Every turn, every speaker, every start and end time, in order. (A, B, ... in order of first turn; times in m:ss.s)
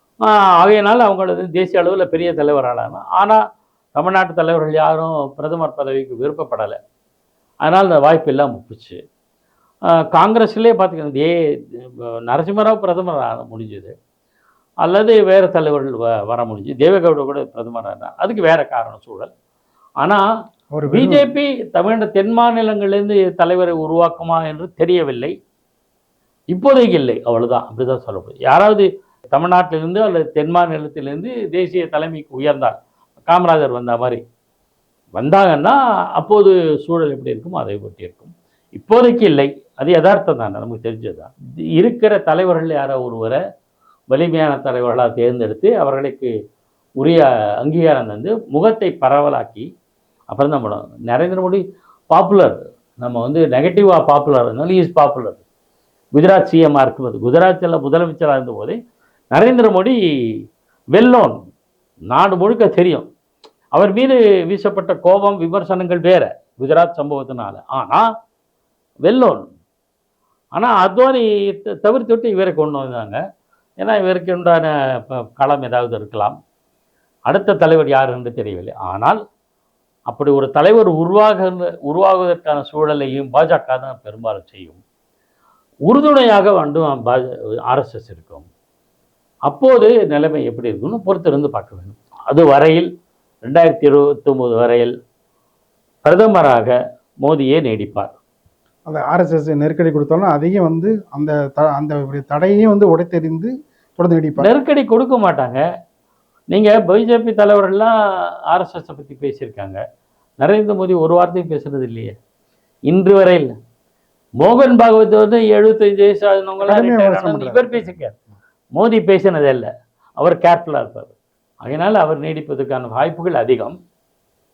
0:00.2-0:03.4 A
0:04.0-0:06.8 A
0:07.6-0:09.0 A
0:10.1-0:14.0 A
0:14.8-0:19.3 A
0:20.8-0:21.3 B
0:20.9-0:25.4 A
0:26.5-0:32.8 A
0:33.3-0:34.2 A
0:35.2-0:43.4 A
0:44.1-0:46.3 A
0:47.0-0:49.7 A
0:50.3-0:55.4 A
0:56.1-0:58.8 A
0:59.3-1:00.0 A
1:00.9-1:01.4 A
1:02.1-1:03.1 A
1:03.7-1:08.1 A
1:09.0-1:09.5 A
1:10.6-1:13.2 A
1:13.8-1:16.4 A
1:17.3-1:19.2 A
1:20.1-1:24.8 A
1:25.9-1:28.5 A
1:29.5-1:32.9 A
1:33.4-1:35.0 A
1:36.0-1:38.2 A
1:38.9-1:44.5 B
1:44.4-1:45.6 A
1:46.5-1:48.0 A
1:48.5-1:49.8 A
1:50.4-1:52.2 A
1:52.9-1:53.5 A
1:54.4-1:58.2 A
1:56.6-1:57.9 B
1:58.7-2:03.8 A